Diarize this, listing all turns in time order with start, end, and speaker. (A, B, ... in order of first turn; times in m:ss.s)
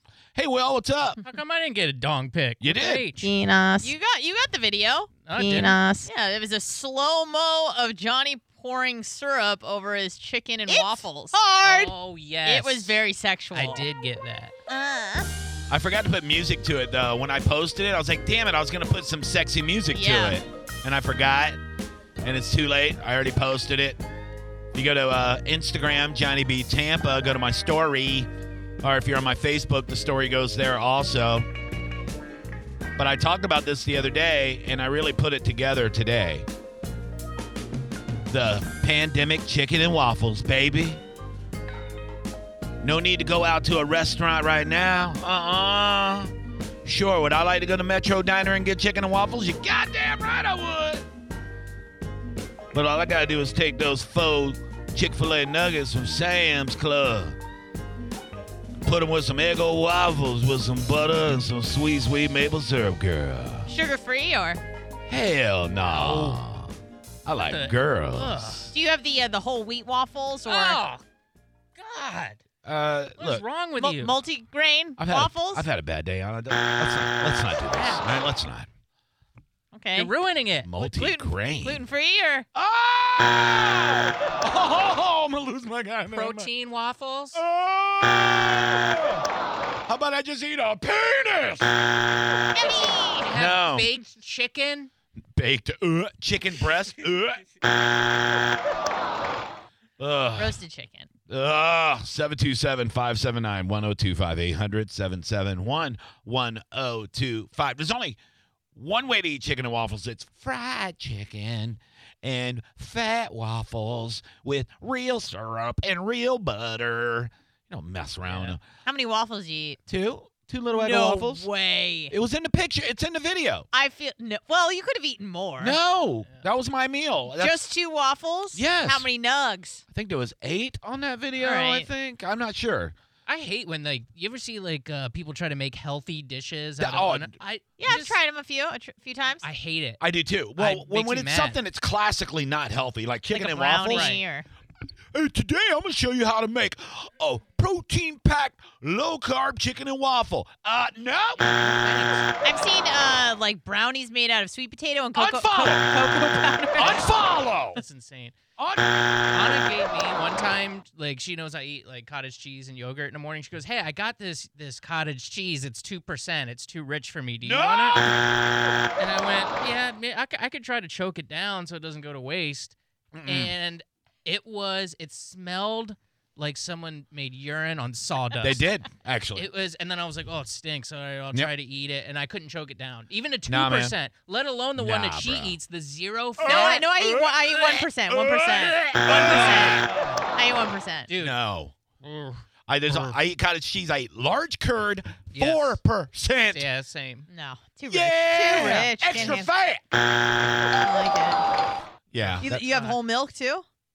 0:00.3-0:01.2 A
0:01.2-0:03.3 B
0:02.6-0:03.0 A
0:03.2-0:11.9 C
0:05.2-0:05.8 B
0:11.6-0:13.0 B
0:12.4-0:13.9 C
0:13.5-0:14.5 B
0:14.7-0:15.3 C
0:15.7-0:21.6 A
0:19.9-0:20.4 C
0:22.2-0:24.0 A
0:24.7-0:28.3 A
0:28.8-0:31.5 A
0:33.0-0:36.4 A
0:38.3-0:41.0 A
0:42.8-0:46.3 A
0:46.8-0:51.0 A
0:52.7-0:57.4 A
0:58.8-1:03.7 A
1:03.7-1:04.6 C
1:05.1-1:06.7 A
1:05.8-1:06.4 B
1:07.2-1:08.7 A
1:07.5-1:08.7 B
1:08.7-1:10.8 C
1:10.5-1:11.0 B
1:11.8-1:12.4 B
1:12.6-1:13.4 A
1:13.2-1:14.2 B
1:13.8-1:15.6 C
1:15.0-1:18.7 A
1:17.7-1:18.0 B
1:19.7-1:20.1 C
1:19.9-1:20.7 B
1:20.6-1:21.8 A
1:20.8-1:22.4 C
1:22.5-1:26.5 A
1:26.1-1:27.4 B
1:27.3-1:29.2 A
1:29.9-1:31.9 A
1:32.5-1:33.3 C
1:33.1-1:34.9 B
1:33.3-1:33.9 A
1:35.4-1:37.4 A
1:40.0-1:40.6 A
1:40.4-1:41.1 C
1:41.3-1:48.2 A
1:48.7-1:58.6 A
1:58.2-1:58.6 B
1:58.8-1:59.8 C
1:59.9-2:01.5 A
2:00.7-2:02.1 C
2:02.1-2:03.7 A
2:03.7-2:05.8 C
2:05.6-2:07.6 A
2:07.3-2:09.8 C
2:08.5-2:09.1 A
2:09.9-2:12.9 A
2:11.4-2:11.9 C
2:13.2-2:18.2 B
2:16.8-2:17.3 A
2:17.8-2:19.4 C
2:19.4-2:20.0 B
2:20.0-2:24.1 A
2:20.6-2:21.6 B
2:23.3-2:24.4 C
2:23.9-2:24.2 B
2:25.1-2:31.7 A
2:31.6-2:32.3 B
2:32.4-2:37.1 C
2:35.1-2:36.1 A
2:36.8-2:37.8 A
2:37.7-2:38.4 B
2:38.6-2:39.4 A
2:39.3-2:48.1 B
2:47.4-2:48.5 A
2:48.9-2:58.6 B
2:53.1-2:53.5 A
2:58.4-2:59.5 A
2:59.3-3:07.8 B
3:03.5-3:03.9 A
3:04.8-3:05.6 A
3:06.4-3:07.1 A
3:06.4-3:11.1 C
3:08.1-3:09.9 A
3:09.1-3:10.2 B
3:11.1-3:11.4 B
3:11.2-3:11.8 A
3:12.0-3:13.2 B
3:12.7-3:16.6 A
3:15.3-3:15.8 B
3:16.5-3:17.3 B
3:17.3-3:19.5 C
3:17.9-3:19.8 A
3:18.5-3:19.4 B
3:20.8-3:21.4 C
3:22.1-3:22.7 A
3:22.2-3:23.0 B
3:22.4-3:23.6 C